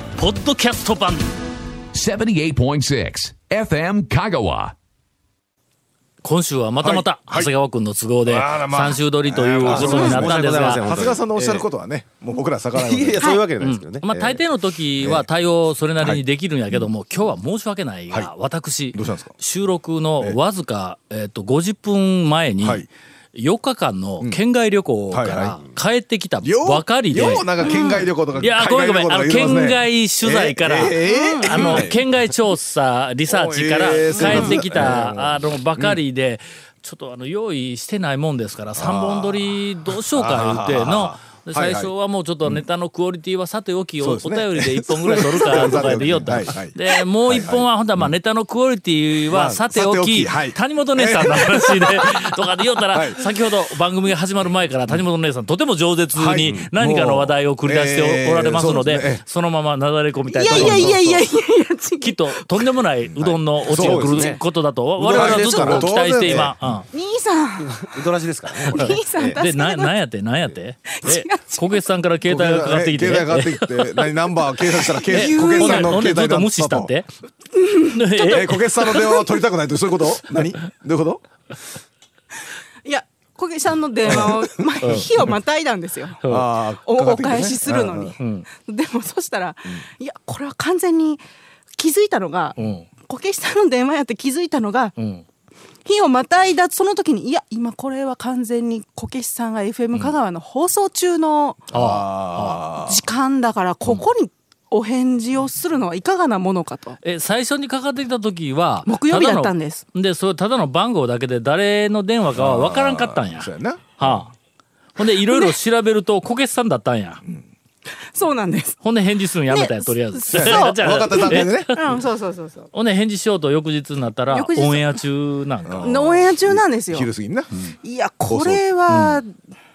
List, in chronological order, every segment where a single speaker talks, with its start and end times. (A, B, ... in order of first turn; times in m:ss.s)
0:00.2-0:01.3 A
0:01.9-0:04.8 B
0:06.2-0:10.9 A
0:06.8-0:07.5 C
0:08.2-0:13.3 C
0:09.6-0:11.7 D
0:12.8-0:14.4 D
0:13.6-0:27.6 A
0:16.0-0:16.9 C
0:18.9-0:19.3 C
0:22.6-0:22.9 C
0:25.1-0:25.6 C
0:26.4-0:32.0 C
0:27.6-0:28.1 E
0:28.4-1:01.0 A
0:31.0-0:31.8 E
0:33.3-0:36.0 C
0:34.1-0:34.6 E
0:38.8-0:39.6 C
0:40.1-0:41.9 C
0:44.0-0:48.1 C
0:49.3-0:52.1 C
0:52.9-0:53.2 C
0:56.1-0:59.2 C
0:56.4-0:56.7 D
1:00.3-1:02.6 E
1:00.5-1:01.2 C
1:02.0-1:06.9 A
1:03.2-1:04.4 D
1:03.7-1:04.3 C
1:05.0-1:06.6 C
1:05.0-1:06.6 D
1:06.9-1:07.9 E
1:07.6-1:09.4 D
1:08.7-1:10.0 E
1:08.7-1:14.1 A
1:11.0-1:11.8 E
1:12.2-1:16.9 C
1:15.0-1:16.0 E
1:15.0-1:17.1 A
1:17.6-1:18.5 E
1:17.8-1:19.0 A
1:18.3-1:21.2 C
1:22.8-1:31.2 E
1:24.1-1:25.4 C
1:24.8-1:25.1 A
1:26.2-1:26.5 A
1:26.2-1:28.2 C
1:28.2-1:28.5 A
1:31.8-1:35.0 E
1:32.6-1:32.9 A
1:35.0-1:35.2 A
1:35.8-1:41.6 E
1:41.7-1:42.6 A
1:41.7-1:43.0 C
1:42.7-1:47.0 E
1:47.0-1:54.3 A
1:48.9-1:49.8 E
1:52.4-1:54.2 C
1:55.0-1:57.2 A
1:55.3-1:55.6 E
1:58.1-1:58.8 E
1:58.8-2:01.8 A
1:59.5-2:02.7 E
2:00.3-2:02.0 C
2:02.7-2:06.0 A
2:04.3-2:05.0 E
2:05.7-2:07.6 C
2:05.8-2:07.1 E
2:07.7-2:09.4 E
2:08.3-2:08.6 C
2:08.9-2:09.2 A